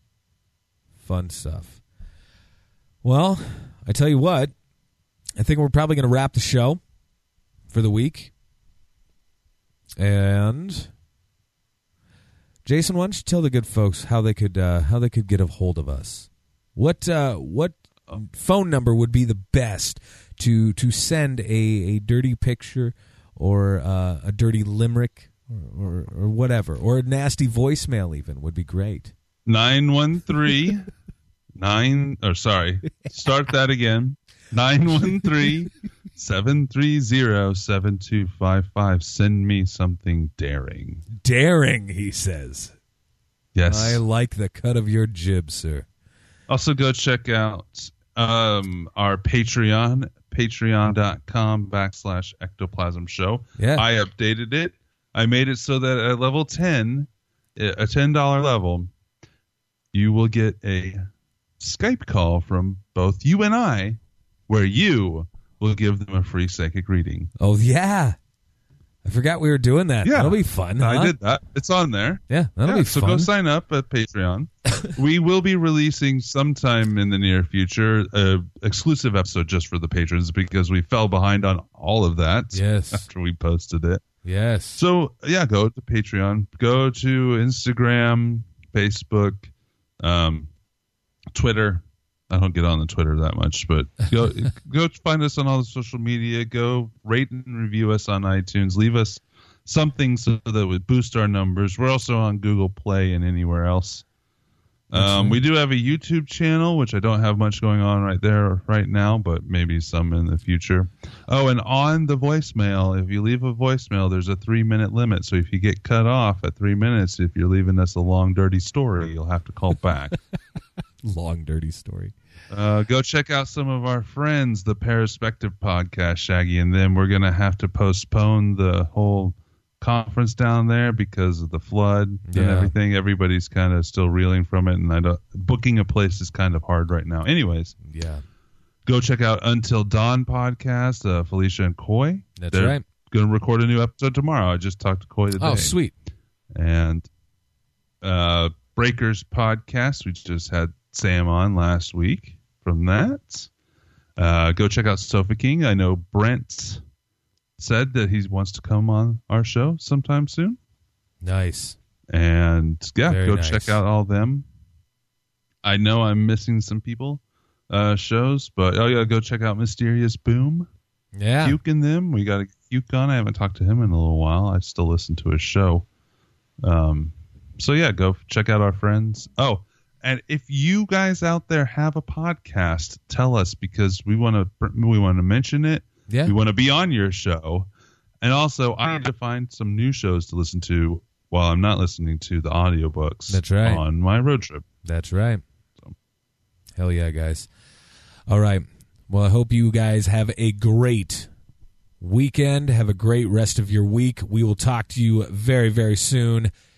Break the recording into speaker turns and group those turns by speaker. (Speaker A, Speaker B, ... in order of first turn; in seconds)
Speaker A: 1.0-1.8, 3.0-4.5, 5.4-6.8, 7.7-8.3, 10.0-10.9, 12.6-29.1, 41.1-42.7, 43.7-45.9, 53.6-53.9, 67.4-68.2, 69.0-71.1, 72.3-73.3, 82.5-83.1, 84.2-84.8, 104.9-105.4, 121.0-122.1, 132.2-132.7, 137.8-138.2, 142.4-142.8, 145.4-145.9, 161.2-161.8, 163.1-163.8, 171.2-171.6, 186.1-186.3, 193.3-193.8, 194.8-195.4, 196.8-197.5, 198.3-201.3, 202.0-206.5
Speaker B: 29.4-30.9, 31.6-41.0, 43.5-44.0, 46.5-58.9, 59.9-61.1, 61.6-67.3, 70.0-84.0, 84.8-90.5, 91.3-104.0, 104.9-120.2, 122.5-137.7, 138.8-145.8, 146.5-147.1, 148.0-153.5, 154.2-156.8, 157.6-160.6, 162.1-164.4, 165.6-170.7, 171.4-175.8, 176.6-187.7, 188.2-194.6